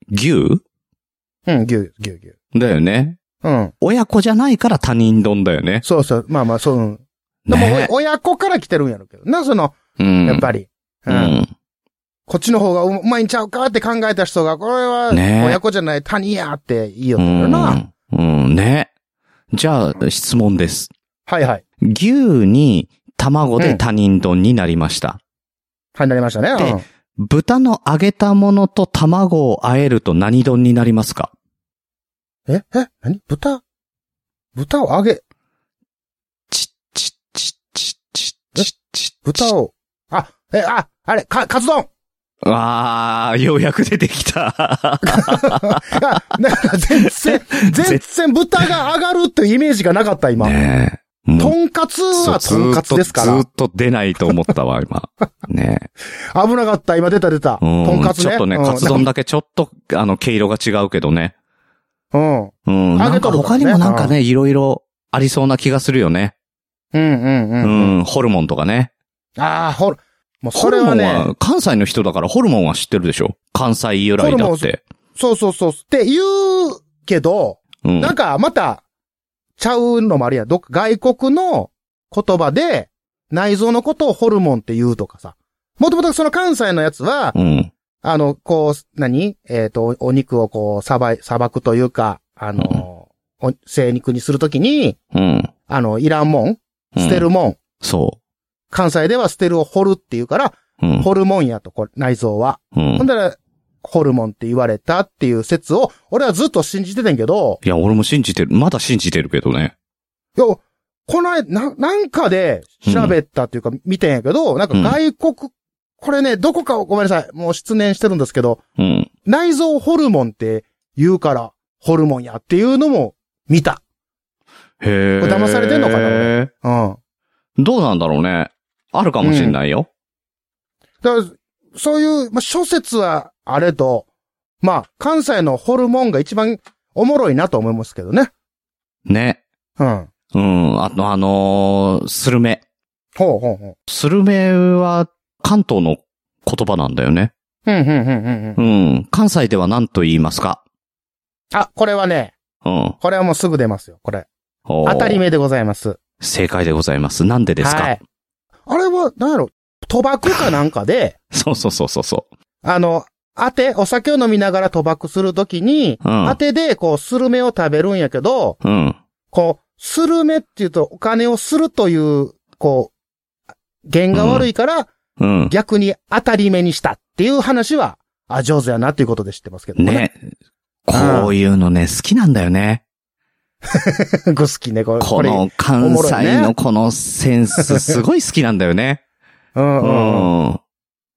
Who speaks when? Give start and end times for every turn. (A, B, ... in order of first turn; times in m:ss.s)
0:00.1-0:00.6 A
0:01.5-0:02.3 B
0:02.5-0:03.2 A
0:03.4-0:03.7 B
0:03.8-0:05.8 A
0:05.8-0:11.4 B
0:07.5-0:07.9 A
0:10.0-0:10.5 A
0:11.1-0:11.5 A
0:12.3-0:17.8 B
0:15.1-0:15.6 A
0:17.2-0:18.9 A
0:19.5-0:20.9 A
0:21.3-0:21.6 B
0:21.8-0:25.2 A
0:26.0-0:26.8 B
0:26.6-0:31.3 A
0:32.5-0:33.6 B
0:34.6-0:35.2 B
0:36.5-0:39.5 A
0:39.2-0:41.9 B
0:42.4-0:46.0 A
0:45.1-0:50.6 B
0:47.1-0:48.0 A
0:50.4-0:51.6 A
0:51.4-0:53.4 B
0:52.1-0:55.9 A
0:56.3-0:59.1 B
0:57.6-1:01.3 A
1:02.1-1:04.1 B
1:02.7-1:06.3 A
1:06.9-1:08.0 B
1:07.6-1:08.9 A
1:09.4-1:11.3 B
1:10.6-1:14.8 A
1:14.2-1:18.8 B
1:17.8-1:18.1 A
1:19.6-1:27.4 B
1:27.3-1:27.7 A
1:28.0-1:35.0 B
1:32.6-1:32.8 A
1:35.1-1:35.5 A
1:35.7-1:37.6 B
1:37.0-1:37.3 A
1:37.8-1:38.2 A
1:38.7-1:47.6 B
1:40.8-1:41.1 A
1:42.7-1:43.0 A
1:47.6-1:49.7 A
1:50.4-1:58.6 B
1:52.8-1:53.2 A
1:58.8-1:59.1 A
1:59.3-2:03.8 B
2:04.8-2:06.5 A
2:05.2-2:07.0 B
2:07.6-2:09.9 A
2:09.2-2:09.6 B
2:11.0-2:14.1 B
2:14.6-2:18.3 B
2:19.1-2:19.4 A
2:19.8-2:20.1 B
2:20.3-2:22.6 A
2:23.2-2:23.8 B
2:23.9-2:27.3 A
2:27.7-2:28.6 B
2:28.6-2:30.6 A
2:31.5-2:32.3 B
2:32.6-2:33.0 A
2:33.0-2:34.3 B
2:34.7-2:35.2 A
2:34.8-2:36.0 B
2:36.2-2:38.0 A
2:37.6-2:38.0 B
2:38.7-2:41.2 B
2:41.3-2:42.3 A
2:42.6-2:48.6 B
2:46.0-2:46.4 A
2:48.6-2:49.0 A
2:49.3-2:52.9 B
2:53.9-2:54.9 B
2:54.1-2:54.5 A
2:55.2-2:55.5 A
2:55.5-3:00.1 B
2:59.8-3:00.2 A
3:00.9-3:02.8 A
3:00.9-3:01.3 B
3:03.6-3:06.5 B
3:05.0-3:09.0 A
3:07.6-3:07.9 B
3:09.6-3:10.3 B
3:09.8-3:10.6 A